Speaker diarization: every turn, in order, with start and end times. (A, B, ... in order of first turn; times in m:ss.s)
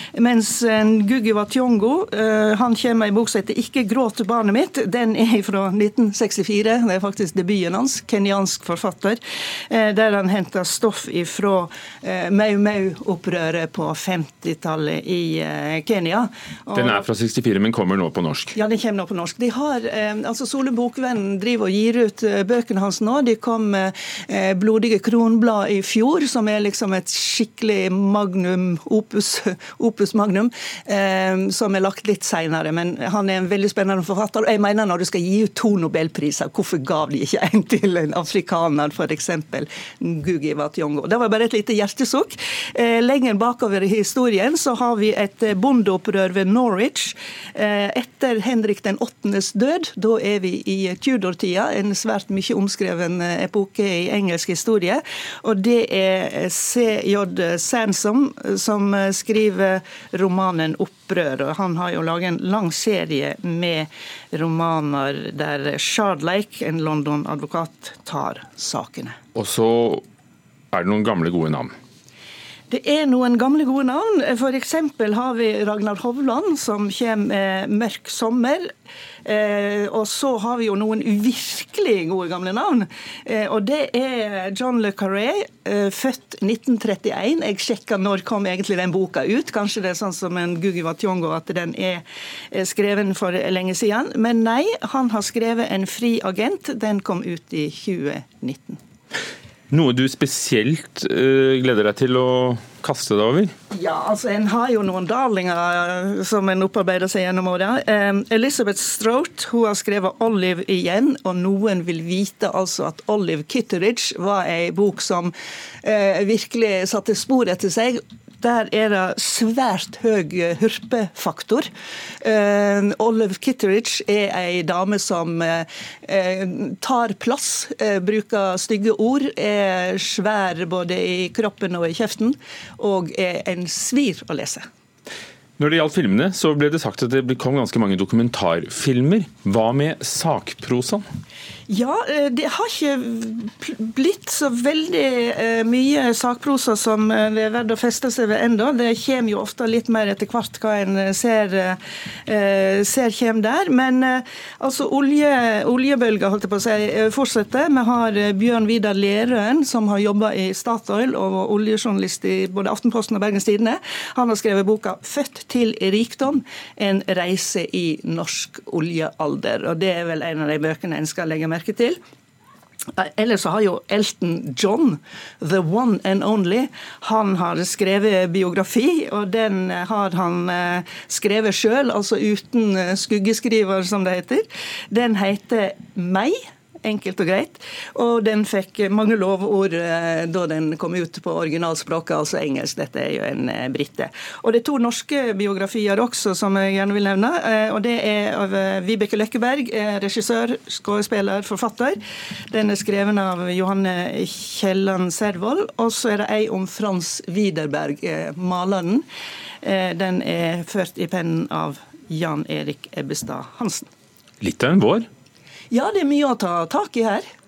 0:00.2-0:17.1 A
0:16.7-0:18.5 B
0:18.6-1:09.2 A
1:09.4-1:10.0 B
1:10.7-1:11.7 B
1:12.7-1:18.7 A
1:19.2-1:38.8 A
1:39.7-1:43.5 B
1:43.7-2:01.7 A
2:02.2-2:14.7 A
2:15.6-2:21.0 B
2:21.7-2:52.0 A
2:52.9-3:22.0 A
3:22.5-3:29.0 A
3:29.6-3:33.9 A
3:34.4-3:35.1 B
3:35.7-3:37.3 A